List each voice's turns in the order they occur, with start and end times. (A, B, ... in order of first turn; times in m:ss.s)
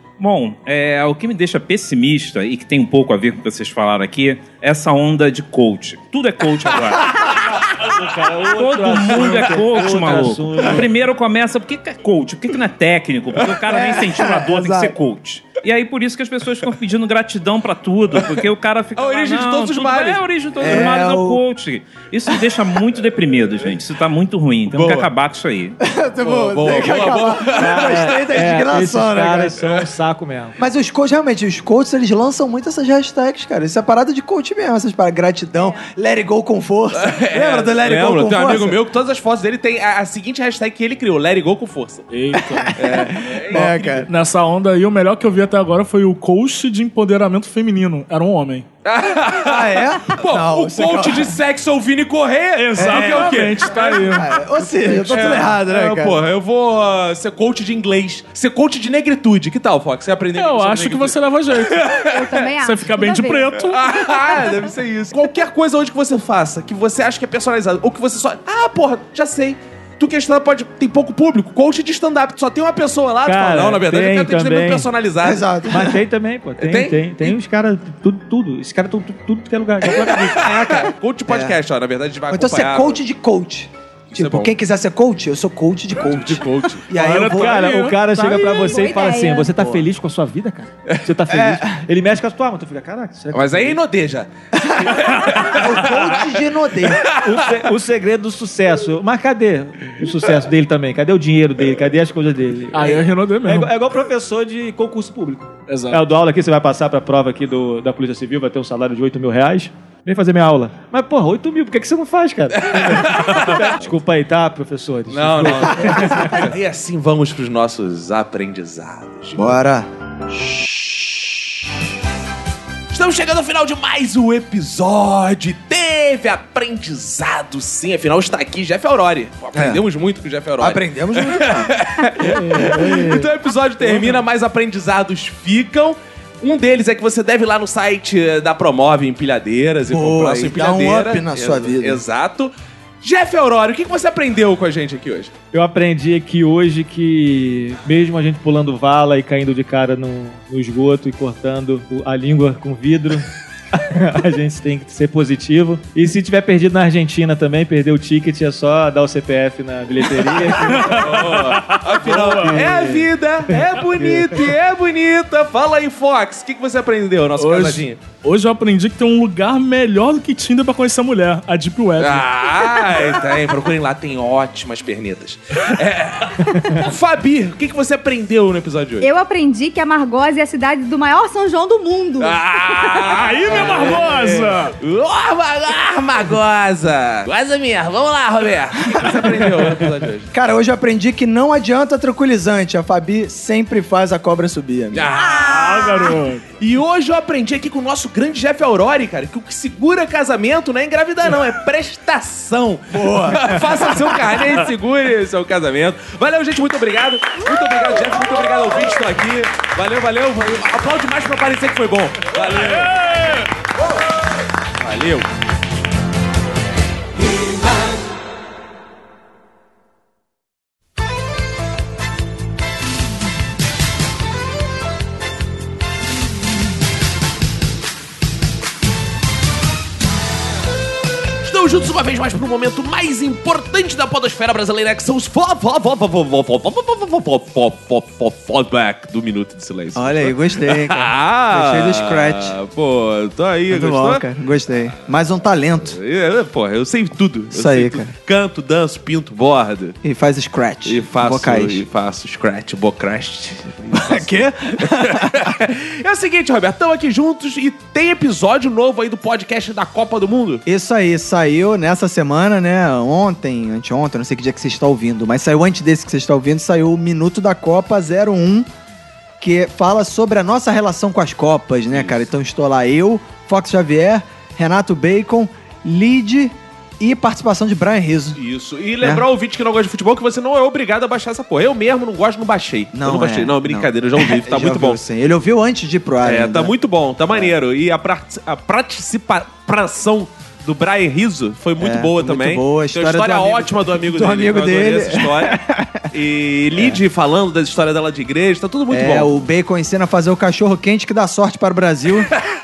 0:00.2-0:07.1 A
0:06.8-0:07.4 B
0:07.5-0:10.9 C
0:08.5-0:25.8 A
0:09.1-0:10.8 B
0:13.7-0:15.0 D
0:19.0-0:20.9 B
0:20.6-0:21.4 D
0:22.3-0:22.6 D
0:24.7-0:25.1 B
0:25.8-0:29.6 D
0:26.2-0:28.3 B
0:27.5-0:30.6 C
0:30.6-0:38.8 D
0:37.0-0:42.1 B
0:42.1-0:42.8 E
0:42.4-0:44.1 D
0:42.8-0:44.0 B
0:43.6-0:48.7 E
0:48.8-1:02.5 B
0:49.3-0:51.3 D
0:52.6-0:54.3 E
0:52.8-0:56.2 D
1:00.4-1:01.9 E
1:02.1-1:03.6 F
1:02.6-1:04.4 E
1:03.6-1:15.6 B
1:13.2-1:14.9 C
1:15.2-1:15.9 D
1:15.7-1:20.9 C
1:16.6-1:17.4 B
1:20.0-1:23.0 B
1:21.3-1:21.6 D
1:22.3-1:27.7 D
1:24.1-1:24.5 B
1:26.0-1:26.9 B
1:27.0-1:28.4 E
1:27.0-1:33.8 C
1:28.2-1:29.5 F
1:29.5-1:29.8 D
1:31.3-1:31.8 D
1:33.3-1:36.2 B
1:34.6-1:37.1 D
1:36.9-1:37.3 B
1:37.1-1:56.5 C
1:42.7-1:43.7 E
1:45.7-1:46.0 E
1:52.6-1:53.7 B
1:55.1-1:59.6 B
1:59.4-1:59.9 D
2:02.9-2:22.5 B
2:09.6-2:09.8 D
2:10.6-2:11.7 D
2:12.3-2:13.3 D
2:19.9-2:22.0 D
2:23.0-2:25.3 B
2:25.5-2:41.3 C
2:40.7-2:42.9 E
2:40.8-2:48.0 B
2:42.3-2:44.4 C
2:47.4-2:52.3 E
2:52.0-2:59.1 B
2:59.0-3:03.1 F
3:02.2-3:10.3 B
3:03.0-3:04.8 E
3:08.9-3:09.5 D
3:10.3-3:15.1 D
3:14.9-3:33.3 B
3:15.2-3:16.1 F
3:15.4-3:16.4 E
3:22.9-3:24.4 D
3:34.8-3:35.3 B
3:51.4-4:04.2 B
4:00.0-4:02.6 D
4:03.7-4:06.0 D
4:05.8-4:10.0 B
4:07.5-4:08.1 D
4:10.0-4:11.8 D
4:10.8-4:20.6 B
4:13.9-4:15.6 D
4:20.7-4:28.7 D
4:29.4-4:38.4 D
4:31.9-4:32.3 B
4:38.4-4:45.0 B
4:42.9-4:46.7 D
4:46.2-4:59.5 B
4:51.8-4:56.0 D
4:58.9-5:02.3 D